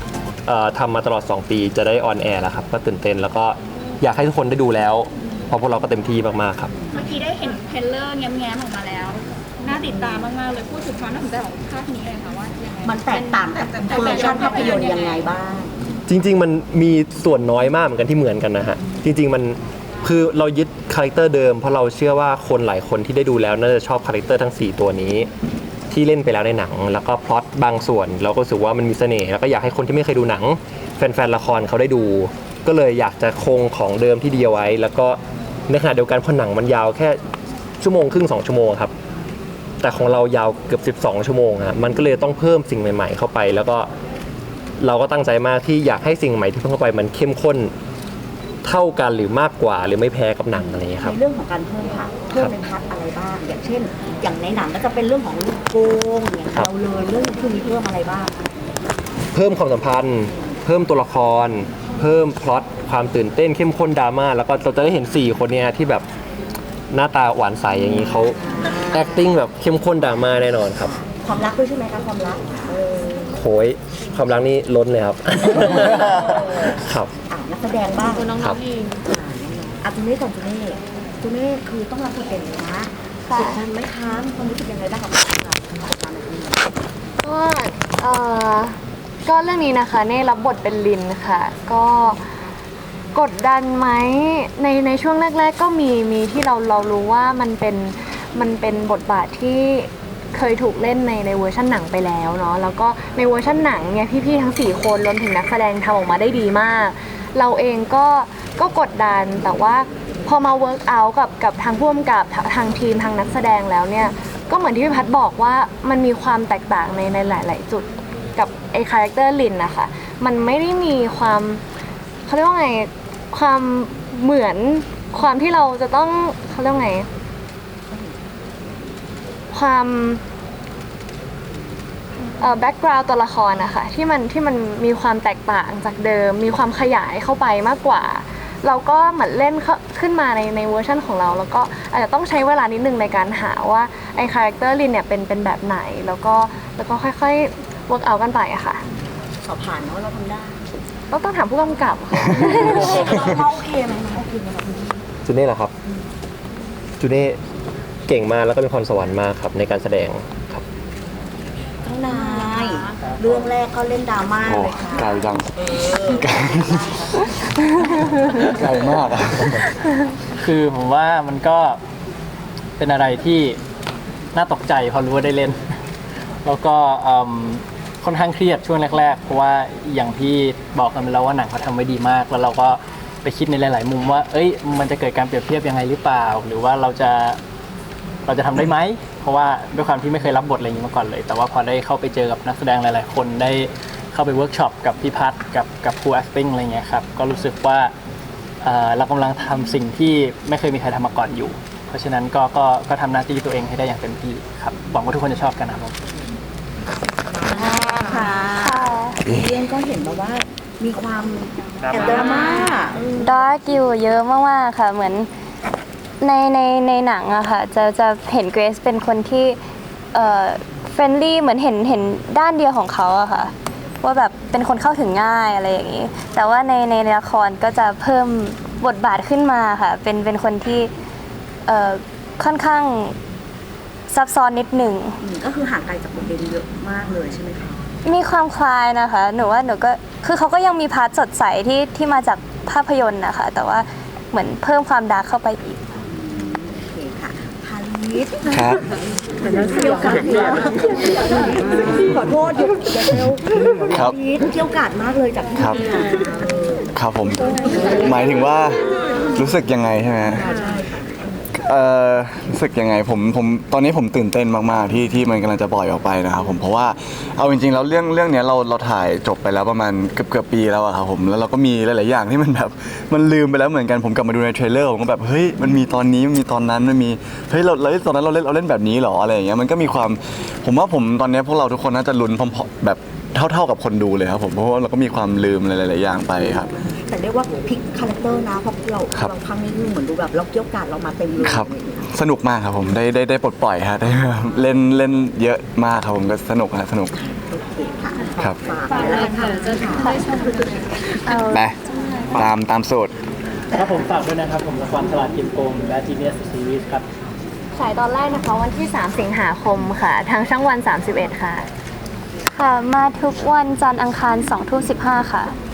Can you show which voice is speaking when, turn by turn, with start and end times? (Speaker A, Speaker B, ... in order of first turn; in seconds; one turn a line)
Speaker A: 0.5-6.7
Speaker B: 6.9-15.2
Speaker C: 12.8-15.7
Speaker A: 16.1-25.3
Speaker A: 25.9-37.2
Speaker A: 37.8-38.9
Speaker A: 39.8-43.9
Speaker A: 44.8-47.7
Speaker A: 48.6-51.1
Speaker C: 50.5-58.4
Speaker A: 59.3-66.0
Speaker A: 66.9-68.4
Speaker C: 68.2-69.2
Speaker A: 68.9-70.9
Speaker C: 70.5-73.3
Speaker A: 73.3-77.1
Speaker C: 77.3-78.4
Speaker A: 78.3-78.6
Speaker C: 79.0-86.7
Speaker D: 83.3-83.6
Speaker D: 87.2-92.2
Speaker D: 93.1-121.6
Speaker D: 122.3-127.0
Speaker D: 129.5-130.2
Speaker D: 132.4-148.8
Speaker C: 149.4-150.6
Speaker D: 151.1-153.1
Speaker C: 152.7-154.9
Speaker A: 155.2-155.7
Speaker A: 157.0-157.4
Speaker A: 158.1-160.6
Speaker C: 161.8-167.1
Speaker E: 164.4-167.1
Speaker E: 168.2-169.7
Speaker F: 170.4-171.8
Speaker F: 172.8-173.6
Speaker F: 174.3-175.6
Speaker F: 176.4-187.4
Speaker F: 188.3-197.9
Speaker F: 198.6-205.9
Speaker C: 207.4-213.4
Speaker B: 207.5-208.3
Speaker G: 208.6-209.2
Speaker G: 213.2-215.3
Speaker G: 216.2-219.6
Speaker G: 220.1-230.9
Speaker G: 231.7-233.2
Speaker G: 234.1-235.2
Speaker C: 235.2-237.8
Speaker G: 238.0-245.8
Speaker C: 246.1-248.5
Speaker E: 248.5-248.8
Speaker C: 249.4-256.9
Speaker E: 256.9-258.8
Speaker E: 259.3-260.4
Speaker C: 260.3-261.4
Speaker E: 261.6-286.7
Speaker C: 287.1-292.1
Speaker E: 291.4-297.1
Speaker C: 297.1-301.1
Speaker G: 301.2-301.6
Speaker E: 302.3-303.1
Speaker F: 303.7-307.1
Speaker D: 307.7-311.6
Speaker G: 312.5-315.5